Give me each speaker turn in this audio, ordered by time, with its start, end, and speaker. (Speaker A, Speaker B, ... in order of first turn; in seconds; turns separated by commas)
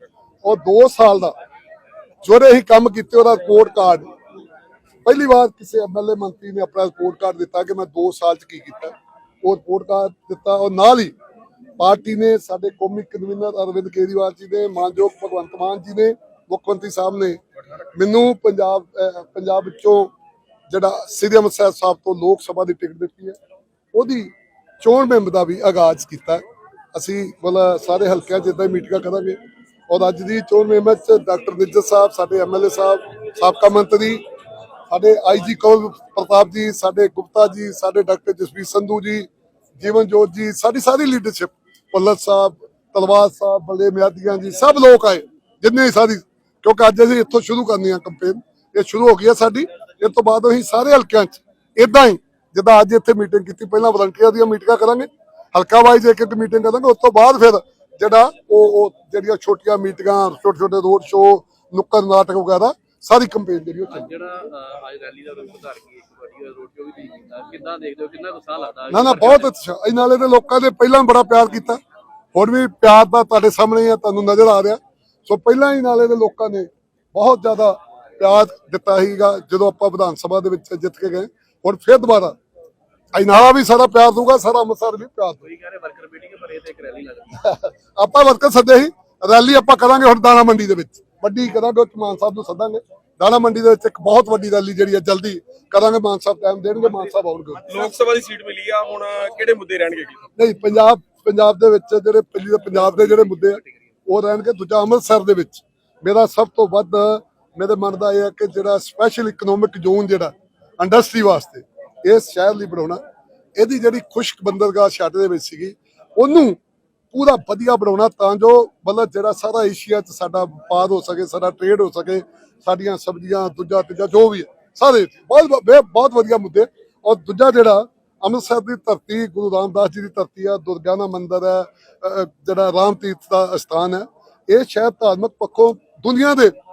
Speaker A: 0.4-1.3, Speaker A: 2.2-4.1, Speaker A: 5.0-11.1, Speaker A: 11.8-17.4, Speaker A: 17.9-20.1, Speaker A: 20.7-23.4, Speaker A: 23.9-26.4, Speaker A: 26.9-29.4, Speaker A: 29.9-34.2, Speaker A: 34.9-64.1, Speaker B: 63.9-69.5, Speaker A: 68.9-71.8, Speaker A: 72.3-82.3, Speaker A: 83.1-85.5, Speaker B: 85.4-87.6, Speaker A: 87.4-97.7, Speaker C: 97.7-100.3, Speaker A: 100.4-113.0, Speaker B: 102.9-103.7, Speaker A: 113.6-116.6, Speaker A: 117.1-136.5